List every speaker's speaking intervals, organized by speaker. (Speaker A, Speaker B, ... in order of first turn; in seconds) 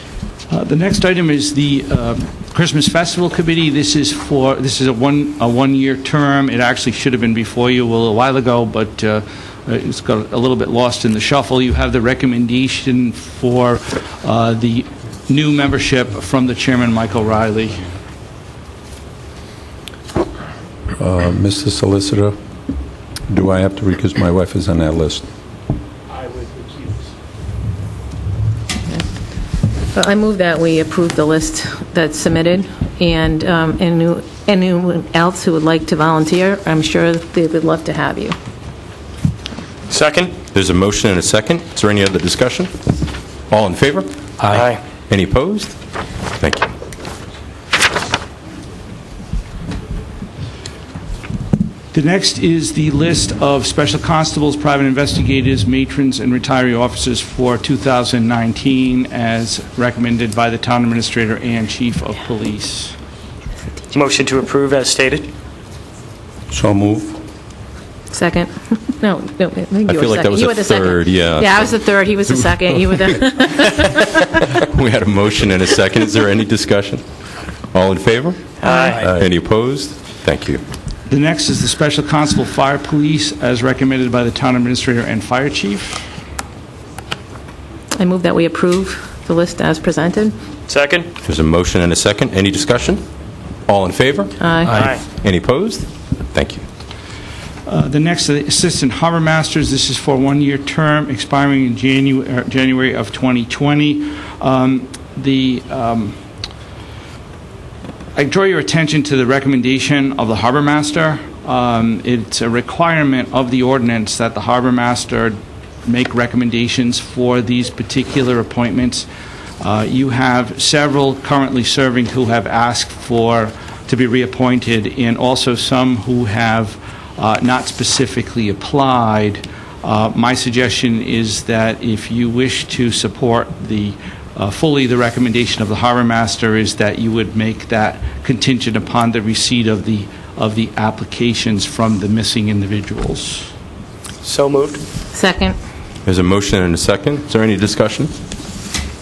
Speaker A: 0.5-17.9, 26.3-26.9, 51.9-63.0, 81.1-86.0, 97.7-106.2, 108.2-119.1, 119.6-143.5
Speaker B: 21.0-22.4, 23.3-25.3, 66.5-67.2
Speaker C: 29.9-38.4, 68.1-74.4, 78.7-79.0, 88.0-90.3, 94.4-94.9, 145.1-145.6
Speaker D: 39.9-40.4, 44.4-44.8, 63.9-65.3, 78.6-79.0, 90.7-91.1, 94.7-95.0, 144.2-144.8
Speaker E: 40.5-42.7, 43.5-44.1, 45.1-45.8, 46.4-46.7, 69.9-71.8, 72.3-73.1, 73.8-77.0, 77.7-80.6, 91.2-93.0, 93.7-96.6, 146.1-148.1